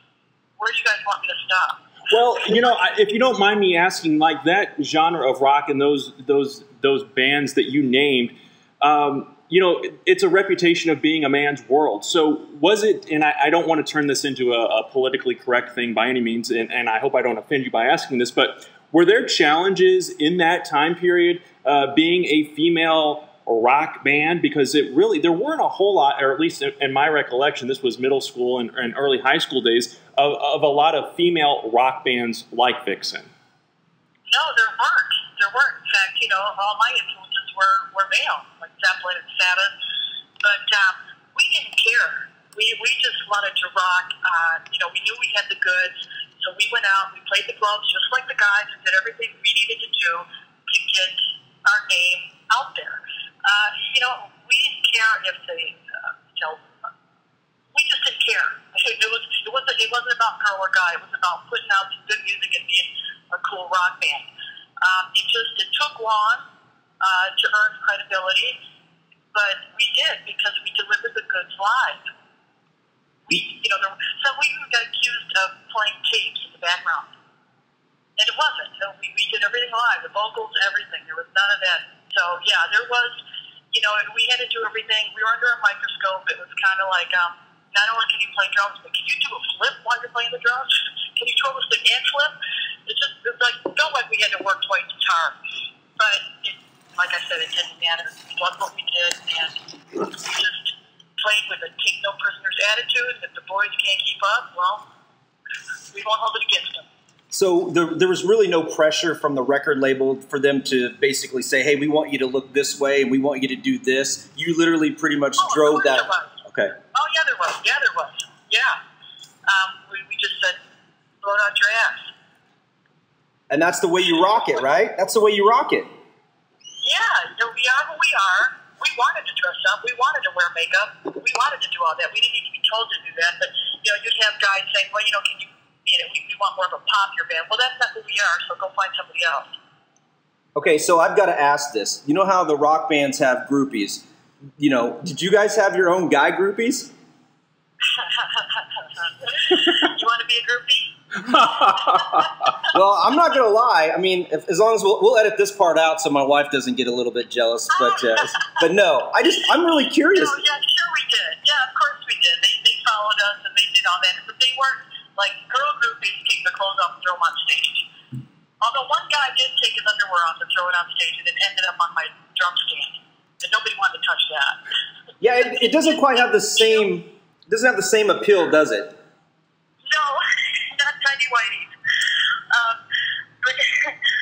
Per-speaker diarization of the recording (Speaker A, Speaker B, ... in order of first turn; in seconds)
Speaker A: 0.6-1.9, 34.3-39.8, 40.4-56.6, 57.7-64.3, 64.8-66.5, 67.0-68.6, 69.3-72.1, 73.3-77.1, 78.2-95.4, 96.0-104.8, 105.9-106.9, 115.4-116.3, 116.9-118.8, 119.5-120.6, 121.2-122.1, 126.8-139.6, 147.9-152.5, 157.7-158.6, 160.1-167.9, 168.6-174.6, 175.4-176.8, 179.8-181.8, 182.5-182.8, 183.4-184.0
Speaker B: 2.1-33.3, 151.4-152.1
Speaker C: 107.3-116.8, 123.5-125.9, 140.6-144.1, 144.6-146.9, 152.7-160.4, 175.2-178.9